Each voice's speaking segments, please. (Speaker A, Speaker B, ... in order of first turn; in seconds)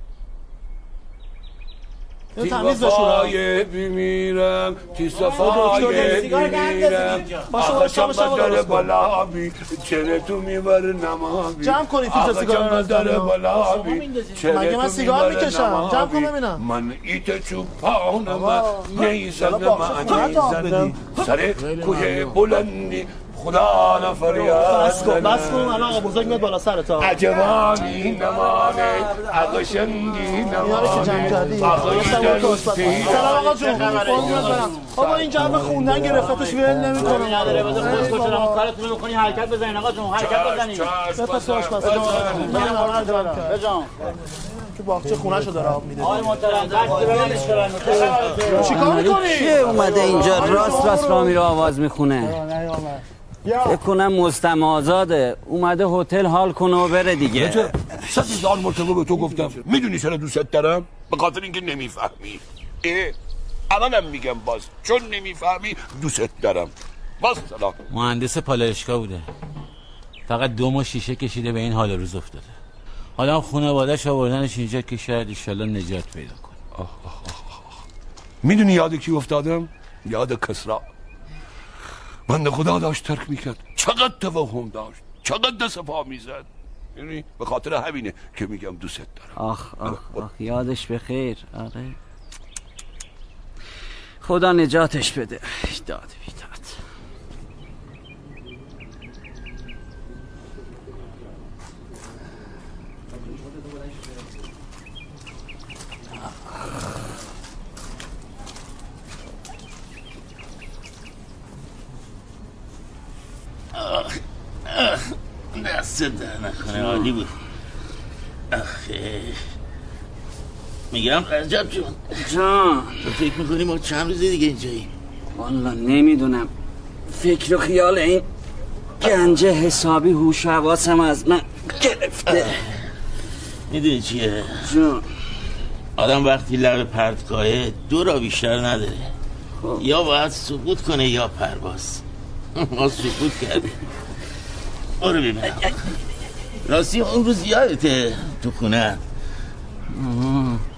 Speaker A: 2.4-3.4, 5.4-8.9, 11.6-13.4, 14.4-16.6, 18.9-21.0, 24.3-27.2, 30.6-38.7, 41.1-43.5, 44.4-47.2, 48.5-51.2
Speaker B: 2.4-26.0, 27.0-34.6, 40.1-42.9, 57.4-63.1, 63.7-67.8, 76.8-77.6, 78.4-80.8, 82.3-90.2
Speaker C: 6.9-7.4, 47.0-48.1, 67.9-69.3, 70.3-72.5, 73.2-76.6
Speaker D: 21.9-22.3, 113.7-117.3, 118.5-119.4, 120.9-122.2, 123.0-124.9, 132.3-132.5, 133.7-134.7, 136.0-139.1, 139.8-142.0, 142.6-143.7, 145.0-145.8, 146.6-149.0
Speaker E: 31.9-34.9, 35.4-40.9, 42.0-43.9, 46.0-49.1
Speaker F: 48.7-52.4, 53.6-57.7, 89.4-92.0, 94.2-96.7, 116.7-117.1, 122.2-123.1, 125.3-126.5, 127.1-128.3, 129.0-132.6, 134.6-135.0, 149.9-150.6